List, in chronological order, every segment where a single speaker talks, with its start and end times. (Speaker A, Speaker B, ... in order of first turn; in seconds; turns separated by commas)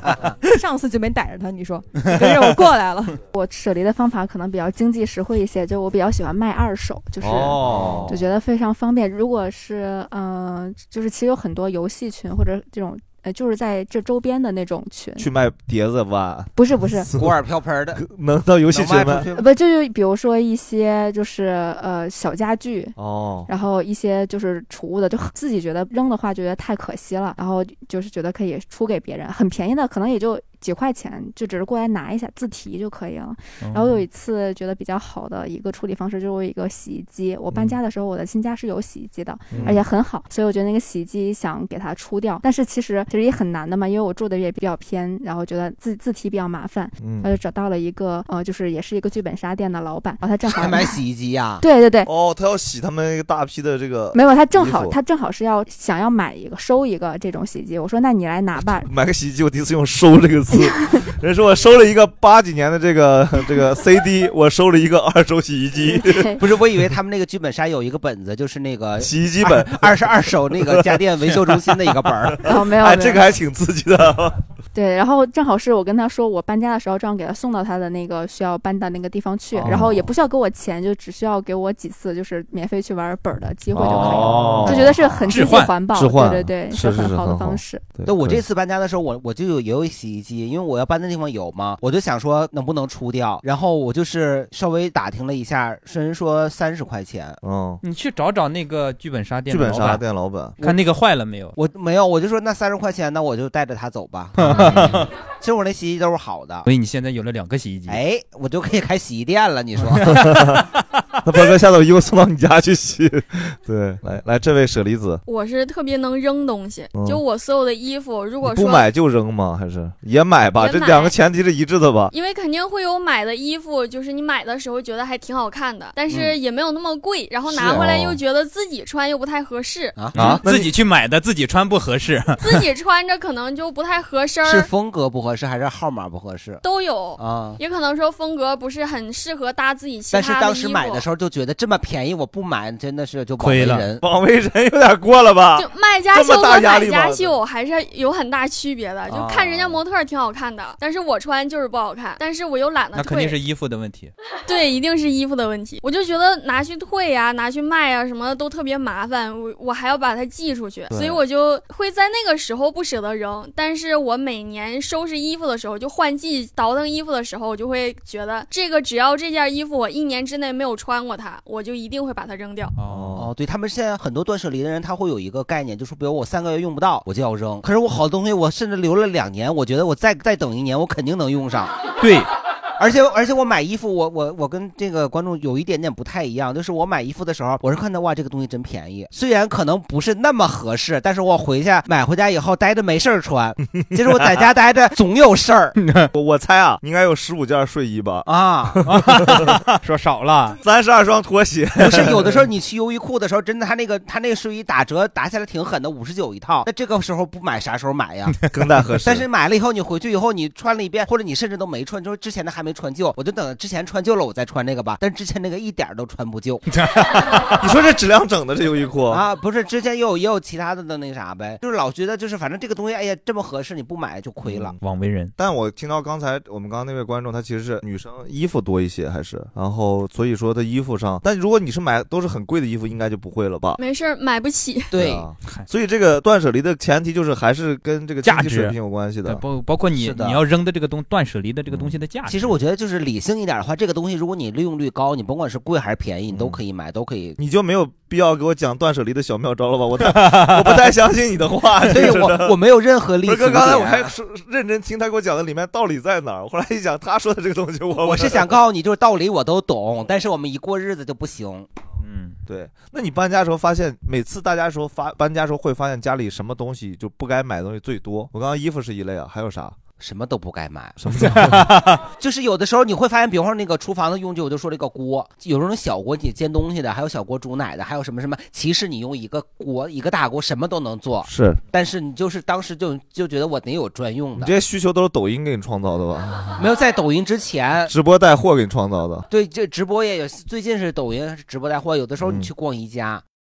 Speaker A: 0.5-3.2, Speaker B: 2.0-2.5, Speaker C: 3.3-15.2, Speaker D: 7.2-8.2, Speaker E: 7.7-8.2, Speaker D: 15.2-17.3, Speaker C: 16.5-17.1, Speaker E: 17.1-18.0, Speaker D: 17.9-19.2, Speaker E: 18.7-19.5, Speaker C: 19.3-22.9, Speaker D: 23.0-23.5, Speaker C: 23.5-51.0, Speaker B: 33.6-34.0, Speaker D: 37.5-37.8, Speaker D: 39.5-39.8, Speaker D: 47.0-47.3, Speaker E: 50.5-51.6, Speaker C: 51.6-52.1, Speaker D: 52.0-55.0, Speaker C: 54.1-58.9, Speaker D: 58.8-66.4, Speaker C: 65.9-66.4, Speaker E: 66.4-72.5, Speaker D: 69.0-74.4, Speaker C: 72.5-73.2, Speaker C: 74.7-87.9, Speaker D: 79.6-80.1, Speaker D: 83.7-85.0, Speaker B: 83.8-85.7, Speaker D: 85.9-88.4, Speaker E: 88.0-97.4, Speaker D: 97.4-97.8, Speaker B: 97.8-100.0, Speaker D: 99.5-100.5, Speaker B: 100.6-101.5, Speaker E: 101.5-106.7, Speaker B: 104.4-105.1, Speaker D: 104.5-104.9, Speaker B: 106.7-108.0, Speaker E: 107.9-110.4, Speaker D: 110.1-110.6, Speaker D: 111.2-115.2, Speaker F: 115.2-118.9, Speaker D: 116.9-117.2, Speaker D: 118.4-122.1, Speaker F: 120.5-121.1, Speaker F: 122.1-130.1, Speaker E: 126.1-126.3, Speaker E: 127.5-127.9, Speaker D: 127.7-128.2, Speaker E: 129.9-130.4, Speaker B: 130.1-132.6, Speaker D: 130.2-130.7, Speaker F: 132.4-134.7, Speaker E: 134.4-136.6, Speaker F: 136.6-141.1, Speaker E: 137.2-137.6, Speaker E: 140.1-144.0, Speaker B: 143.4-143.8, Speaker D: 144.0-147.3, Speaker F: 145.6-153.4, Speaker E: 149.1-149.8, Speaker B: 152.9-154.1, Speaker F: 154.4-172.7, Speaker D: 160.9-161.2, Speaker B: 172.8-173.2, Speaker D: 172.8-173.3, Speaker E: 173.2-181.7, Speaker B: 182.0-182.3, Speaker E: 182.8-195.8, Speaker B: 195.8-196.1, Speaker D: 196.1-198.3, Speaker E: 198.3-198.8, Speaker D: 198.8-199.5, Speaker B: 198.8-200.6, Speaker D: 200.5-202.4, Speaker E: 201.8-208.4, Speaker D: 208.5-209.2, Speaker E: 209.0-216.6, Speaker B: 216.7-217.6, Speaker D: 217.6-219.2, Speaker E: 219.1-224.8, Speaker B: 224.8-225.3, Speaker D: 225.4-233.8, Speaker F: 233.8-234.9, Speaker E: 234.9-235.2, Speaker D: 234.9-239.4, Speaker B: 238.2-238.7, Speaker B: 239.2-242.5, Speaker E: 240.0-240.4, Speaker E: 242.3-247.4, Speaker D: 246.3-246.6, Speaker D: 247.4-252.6, Speaker B: 250.0-250.8, Speaker E: 251.9-254.1, Speaker D: 253.2-258.6, Speaker E: 258.0-261.7, Speaker B: 262.0-262.4, Speaker D: 262.5-269.8, Speaker E: 270.0-271.0, Speaker D: 271.0-271.8, Speaker B: 271.1-272.0, Speaker E: 272.2-284.5, Speaker D: 281.2-281.6, Speaker D: 284.4-286.6, Speaker E: 286.6-287.9, Speaker D: 287.9-289.2, Speaker E: 289.3-293.2, Speaker D: 292.2-292.5